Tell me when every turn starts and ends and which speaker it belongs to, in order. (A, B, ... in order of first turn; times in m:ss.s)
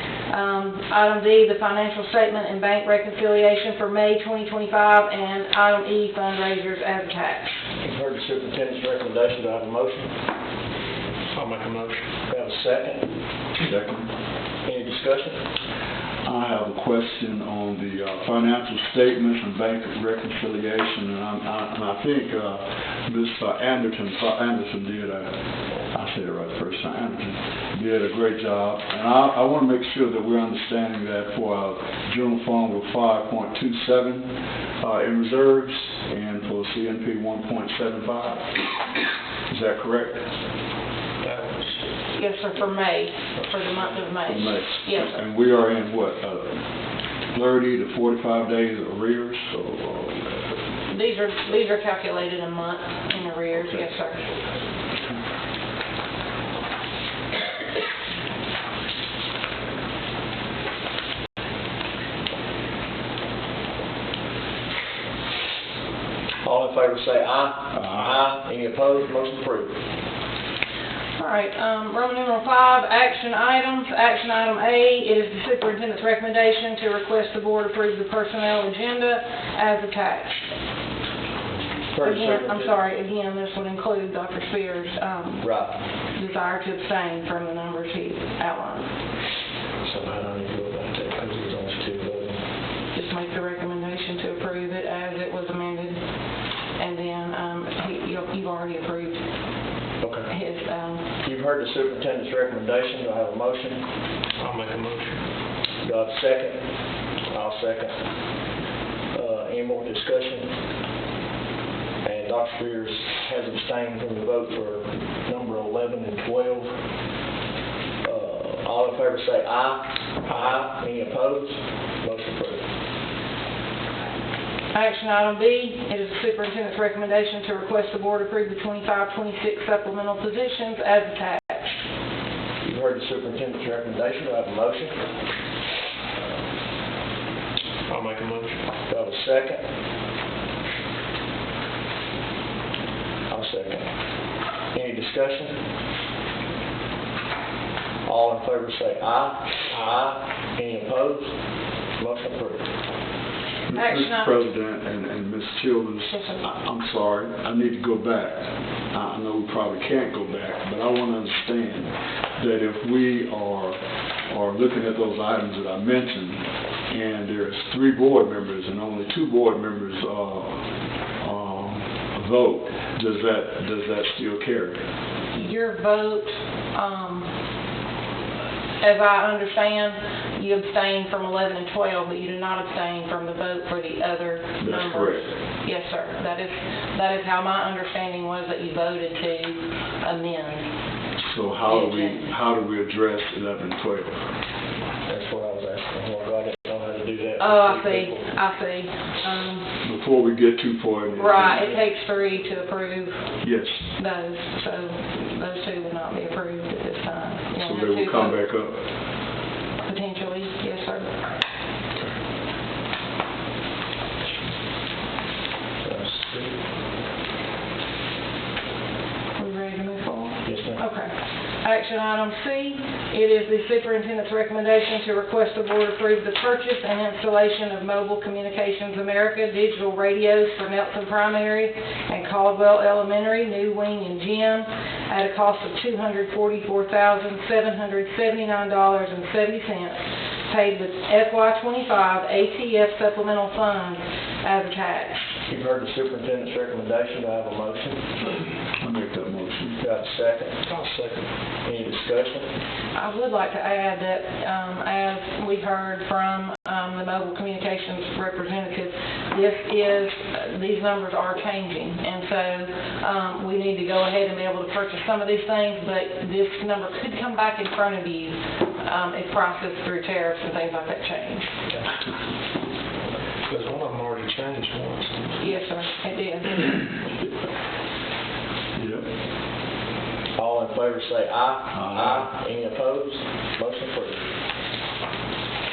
0:00.3-0:07.6 A
0:07.8-0:10.1 B
0:11.3-0:12.1 C
0:12.3-0:13.1 B
0:13.6-0:14.1 D
0:14.7-0:15.4 B
0:16.2-0:25.4 D
0:25.9-0:38.6 D
0:39.5-0:40.2 D
0:41.2-0:41.8 C
0:42.1-0:45.2 A
0:43.6-0:44.1 C
0:44.2-0:46.6 D
0:47.3-0:50.5 D
0:50.9-0:54.2 A
1:06.4-1:09.8 B
1:07.7-1:08.2 D
1:11.2-1:20.5 A
1:21.9-1:22.8 B
1:22.0-1:25.5 A
1:25.4-1:25.8 B
1:26.1-1:28.9 A
1:29.8-1:32.4 B
1:32.9-1:36.0 A
1:36.8-1:39.2 A
1:40.0-1:40.3 B
1:40.3-1:41.0 A
1:41.2-1:43.8 B
1:44.4-1:45.2 C
1:45.8-1:46.6 B
1:47.3-1:48.0 B
1:49.1-1:50.5 B
1:52.0-1:56.7 B
1:58.0-2:02.6 B
2:04.7-2:11.8 A
2:12.6-2:15.0 B
2:17.9-2:18.6 C
2:18.9-2:19.6 B
2:23.3-2:23.9 B
2:24.7-2:25.6 B
2:28.1-2:31.3 B
2:29.7-2:30.0 C
2:32.0-2:32.6 B
2:33.7-2:50.7 D
2:33.7-2:34.4 A
2:36.1-2:36.4 A
2:51.2-2:54.8 D
2:55.3-2:57.3 A
2:58.8-3:10.7 A
3:04.6-3:05.3 D
3:11.2-3:14.2 D
3:11.7-3:12.2 A
3:15.1-3:18.2 B
3:17.4-3:19.7 A
3:19.8-3:21.7 D
3:21.1-3:23.2 A
3:23.4-3:23.9 D
3:24.0-3:28.4 A
3:27.6-3:28.8 D
3:29.8-3:31.2 A
3:35.8-3:36.6 B
3:39.4-4:05.3 A
3:40.4-3:40.8 B
4:05.5-4:08.1 B
4:08.8-4:09.8 D
4:09.8-4:10.6 B
4:10.7-4:11.3 C
4:11.6-4:12.5 B
4:12.9-4:31.5 A
4:33.5-4:35.4 C
4:35.4-4:36.9 A
4:38.8-4:39.1 D
4:40.4-4:44.3 B
4:41.7-4:42.2 D